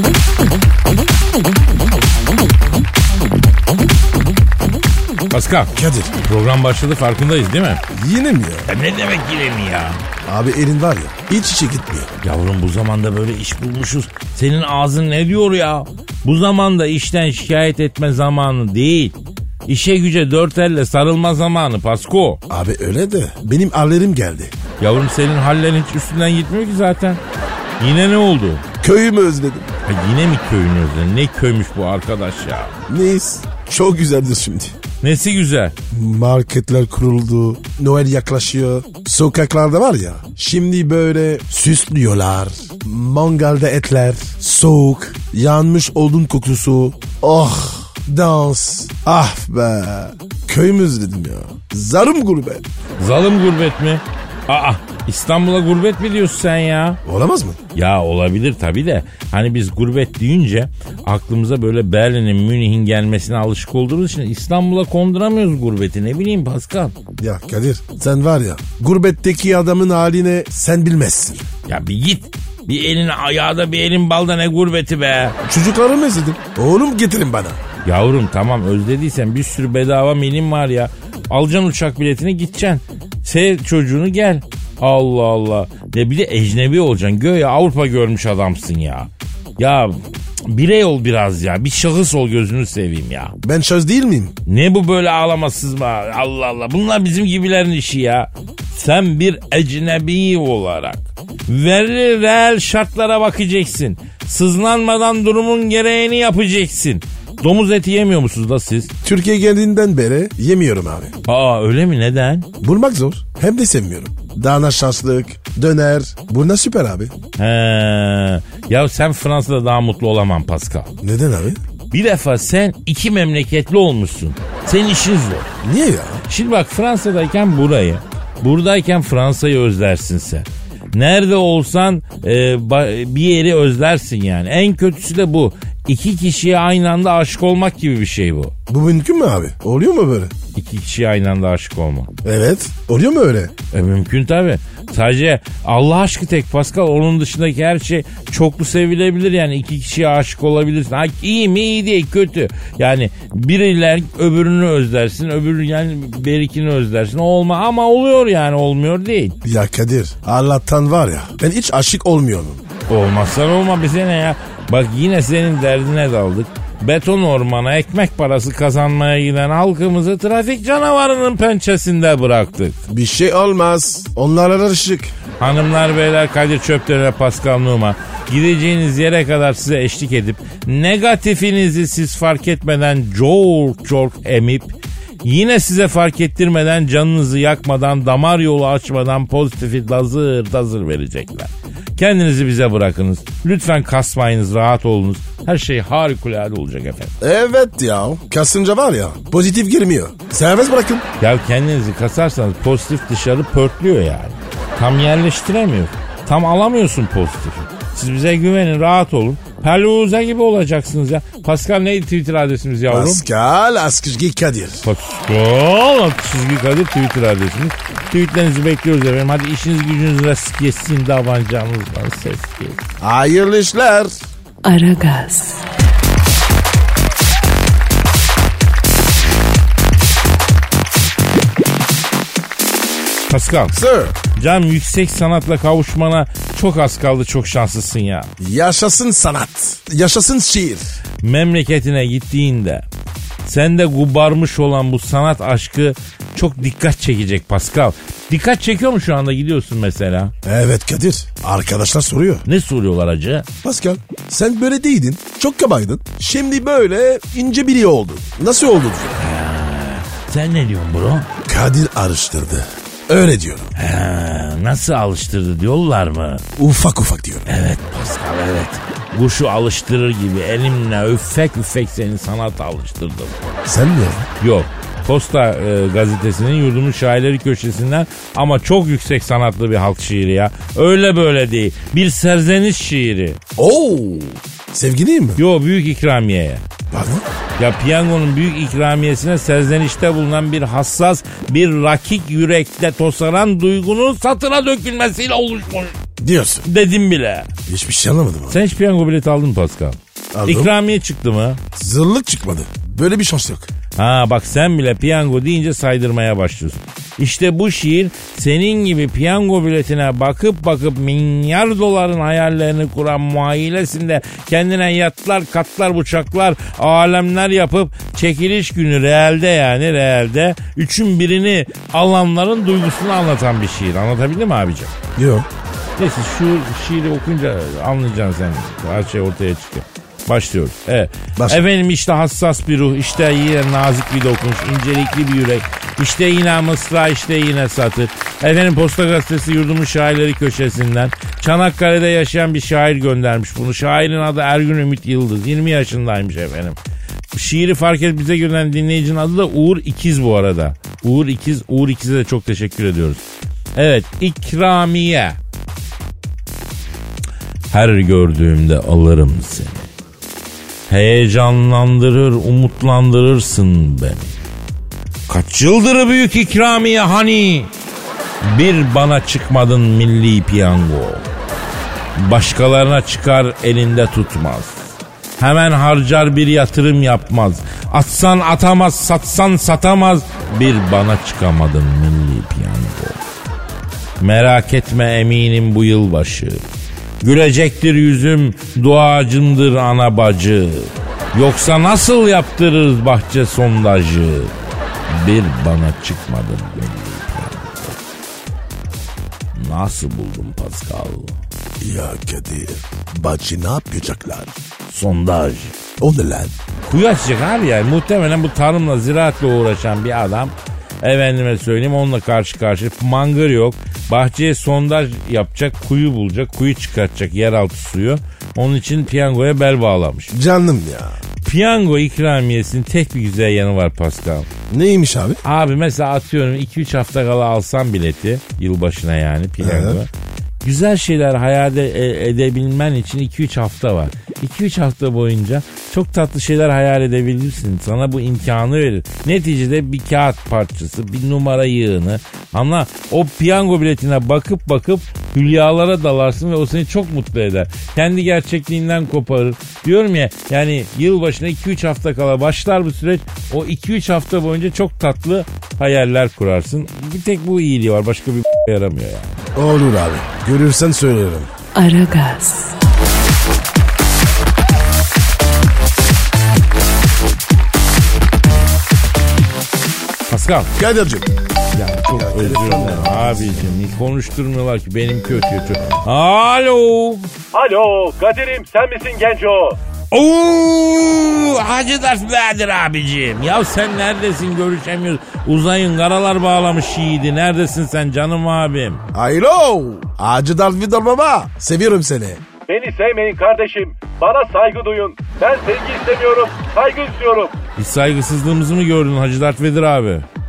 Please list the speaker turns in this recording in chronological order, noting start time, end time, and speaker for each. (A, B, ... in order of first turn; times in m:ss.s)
0:05.3-0:07.8 A
0:05.7-0:06.1 B
0:07.9-0:08.7 B
0:08.7-0:10.0 A
0:10.2-0:12.2 B
0:12.2-0:22.4 A
0:22.5-0:24.5 B
0:24.8-0:27.2 A
0:27.8-0:28.6 A
0:28.8-0:29.7 B
0:29.8-0:32.7 A
0:32.9-0:34.8 B
0:35.0-0:35.7 A
0:35.9-0:52.6 B
0:53.0-0:57.0 A
0:57.0-0:57.6 B
0:57.8-1:07.0 A
1:07.2-1:11.4 B
1:11.7-1:15.4 A
1:15.4-1:17.6 B
1:17.8-1:29.9 A
1:30.4-1:33.3 A
1:33.4-1:34.4 B
1:34.5-1:48.9 A
1:49.0-1:51.1 B
1:51.3-1:52.5 A
1:52.6-1:57.1 B
1:57.4-2:00.9 A
2:01.0-2:01.6 B
2:01.9-2:05.5 A
2:05.6-2:06.2 B
2:06.3-2:18.5 A
2:18.7-2:20.3 B
2:20.5-2:22.1 A
2:22.2-2:23.5 B
2:23.7-2:39.4 A
2:39.4-2:42.6 B
2:42.9-2:52.8 A
2:52.9-2:55.1 B
2:55.4-3:04.7 A
3:05.2-3:17.1 A
3:17.2-3:21.0 B
3:21.2-3:33.2 A
3:32.9-3:34.8 B
3:34.8-3:42.8 A
3:43.0-3:44.1 B
3:44.6-3:45.6 C
3:53.3-3:53.7 A
3:53.7-3:54.2 B
3:54.4-3:58.3 A
3:58.4-4:00.9 B
4:01.2-4:02.8 A
4:03.4-4:10.3 A
4:10.4-4:12.4 B
4:12.5-4:13.5 A
4:13.6-4:19.2 B
4:19.2-4:21.3 A
4:21.5-4:23.7 B
4:23.8-4:26.4 A
4:26.6-4:27.5 B
4:27.5-4:33.4 A
4:33.6-4:34.3 B
4:34.4-4:43.4 A
4:43.6-4:45.4 B
4:45.4-4:46.6 A
4:46.9-4:47.2 B
4:47.6-4:55.9 A
4:56.2-4:56.6 B
4:56.6-4:57.5 A
4:57.7-4:58.6 B
4:58.5-5:01.6 A
5:00.3-5:00.7 B
5:01.7-5:03.7 B
5:04.0-5:24.9 A
5:25.2-5:25.4 B
5:26.0-5:46.8 A
5:47.3-5:53.2 A
5:53.7-5:55.4 A
5:57.7-5:59.9 A
6:00.9-6:04.3 A
6:05.3-6:07.7 A
6:08.4-6:11.2 A
6:12.2-6:14.8 A
6:15.4-6:23.2 A
6:24.2-6:26.6 A
6:27.2-6:34.5 A
6:35.1-6:38.0 A
6:39.5-6:41.4 A
6:41.8-6:44.5 B
6:44.9-6:45.8 A
6:46.0-6:46.5 B
6:46.9-7:00.3 A
7:00.3-7:01.2 B
7:01.4-7:04.5 A
7:04.7-7:05.4 B
7:05.4-7:10.1 A
7:09.6-7:10.0 B
7:10.6-7:39.4 A
7:39.5-7:41.5 B
7:41.7-7:42.7 C
7:50.3-7:50.7 A
7:50.8-7:51.3 B
7:51.7-7:57.3 A
7:52.1-7:53.6 B
7:57.5-7:59.8 D
8:00.1-8:09.0 A
8:09.1-8:12.4 B
8:12.7-8:17.5 D
8:17.8-8:20.2 A